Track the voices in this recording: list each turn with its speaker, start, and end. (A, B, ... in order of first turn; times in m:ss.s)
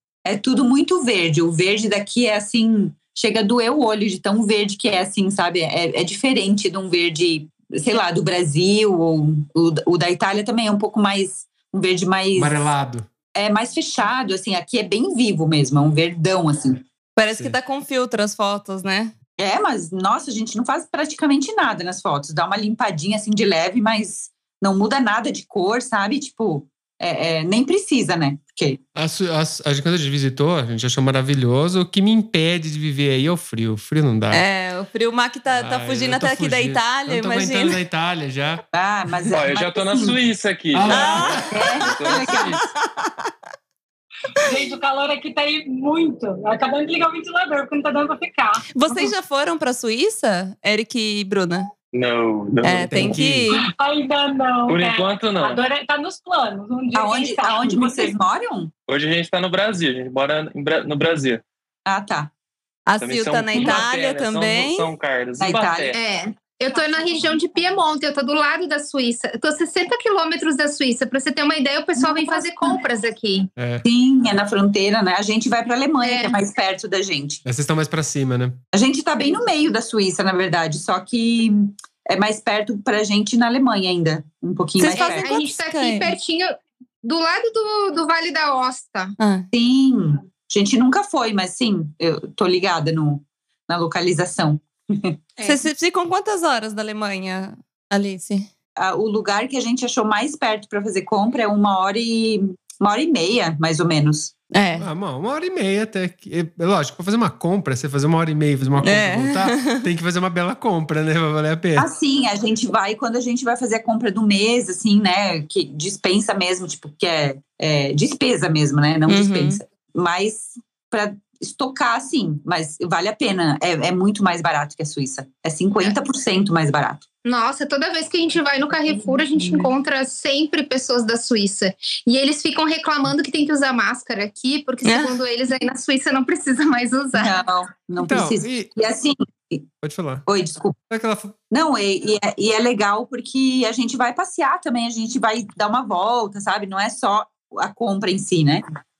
0:00.3-0:12.6 A
0:12.4-0:13.1 B
0:13.3-0:16.8 A
0:17.2-0:19.1 C
0:17.3-0:17.6 B
0:19.4-0:28.8 A
0:29.0-0:34.4 B
0:34.3-0:37.8 C
0:35.5-0:38.6 B
0:38.7-0:40.2 A
0:39.3-0:42.6 D
0:40.7-0:41.5 B
0:40.9-0:41.5 C
0:41.5-0:42.6 A
0:42.4-0:43.3 C
0:44.4-0:49.1 E
0:48.8-0:51.7 C
0:51.9-0:53.2 D
0:52.6-0:53.6 C
0:52.6-0:53.5 B
0:53.6-0:58.2 E
0:54.7-0:55.6 D
0:56.9-0:58.7 A
0:58.9-1:01.4 D
1:01.9-1:02.3 A
1:02.9-1:04.9 C
1:03.0-1:06.0 D
1:05.4-1:05.9 A
1:05.9-1:13.5 F
1:06.7-1:07.6 E
1:12.0-1:12.7 A
1:13.6-1:13.8 B
1:13.8-1:17.4 A
1:16.0-1:16.4 F
1:17.4-1:18.6 B
1:18.7-1:25.3 A
1:24.8-1:26.1 C
1:24.9-1:29.1 F
1:29.2-1:29.5 C
1:29.5-1:35.2 A
1:35.4-1:38.5 C
1:38.8-1:44.3 A
1:44.5-1:44.9 C
1:44.8-1:51.9 B
1:48.8-1:49.8 C
1:51.8-2:07.0 A
1:59.1-1:59.6 C
2:07.2-2:17.4 F
2:09.2-2:09.6 E
2:14.8-2:15.2 C
2:17.2-2:19.7 A
2:18.0-2:18.7 B
2:19.8-2:20.2 B
2:20.3-2:20.8 A
2:20.9-2:21.4 B
2:21.5-2:28.6 A